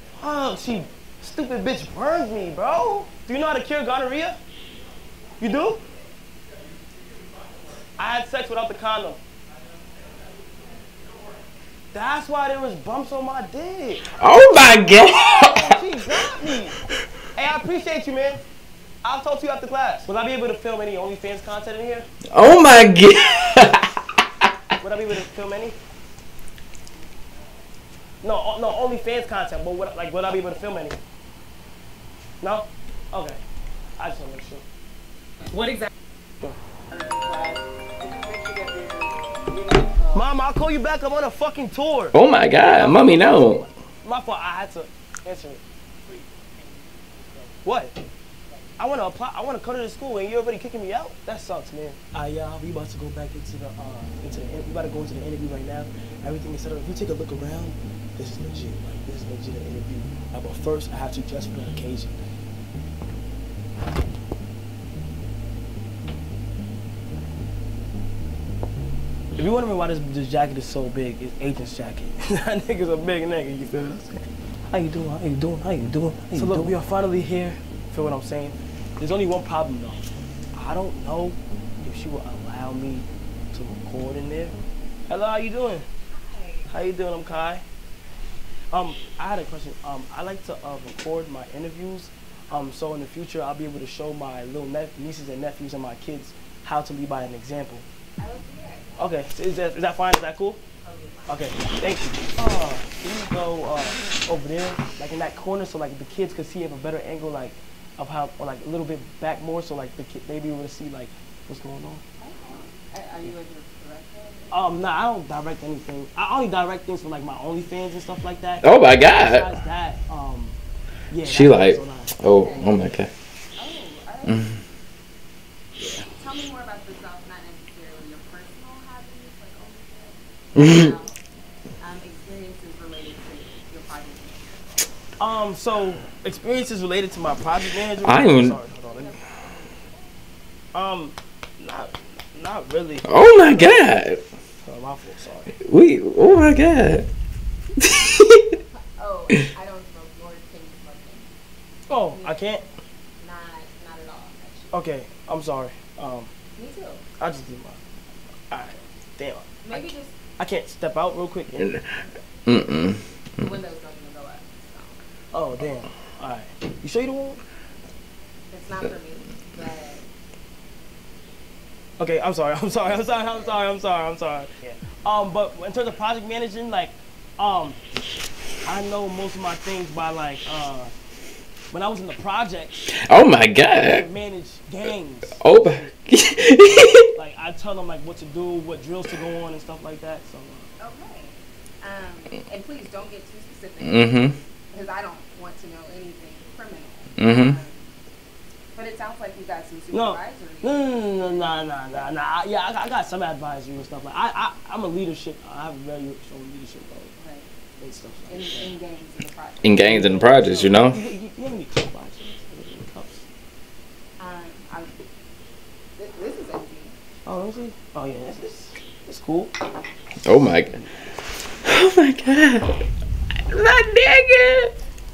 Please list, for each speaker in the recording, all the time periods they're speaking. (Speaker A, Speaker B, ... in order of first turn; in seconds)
Speaker A: 0.2-4.4, 5.4-5.8, 8.0-9.2, 11.9-14.1, 15.3-16.8, 17.3-18.4, 19.0-22.1, 24.8-25.8, 28.2-31.0, 32.4-33.4, 34.0-34.6, 40.1-45.6, 47.6-48.0, 48.8-62.2, 69.3-85.9, 86.7-87.6, 88.7-97.8, 99.0-100.6, 101.3-112.0, 114.5-120.6, 121.1-122.1, 135.2-139.2, 140.7-143.1, 144.6-145.5, 151.9-152.6, 154.7-156.3, 157.2-157.8, 158.5-161.8, 165.3-167.4, 172.0-177.8, 178.6-180.9, 181.7-182.9, 183.7-185.9, 187.1-190.7, 199.9-207.1, 207.8-208.7, 209.8-213.2, 217.2-219.5
Speaker B: 14.2-15.7, 22.3-24.5, 42.1-43.7, 118.6-119.5, 121.2-123.1, 124.2-124.6, 130.6-130.8, 138.0-138.6, 143.1-144.2, 145.7-147.1, 147.8-148.5, 162.5-163.5, 183.1-184.1, 185.4-187.0, 193.8-194.3, 197.2-197.6, 209.6-211.0, 220.2-220.8, 221.6-222.7, 223.5-224.7
Speaker C: 35.5-35.9, 36.9-40.0, 76.4-76.7, 86.1-86.7, 98.2-99.1, 100.8-101.5, 112.2-114.7, 122.3-122.8, 123.5-124.4, 126.1-131.2, 131.8-134.8, 138.7-140.2, 148.7-151.3, 152.1-152.5, 153.2-154.8, 156.6-157.0, 159.6-160.2, 163.4-165.0, 168.5-170.1, 172.7-173.6, 190.8-194.1, 194.7-197.9, 198.7-202.1, 207.2-207.5, 208.3-210.8, 214.2-214.9, 216.0-217.0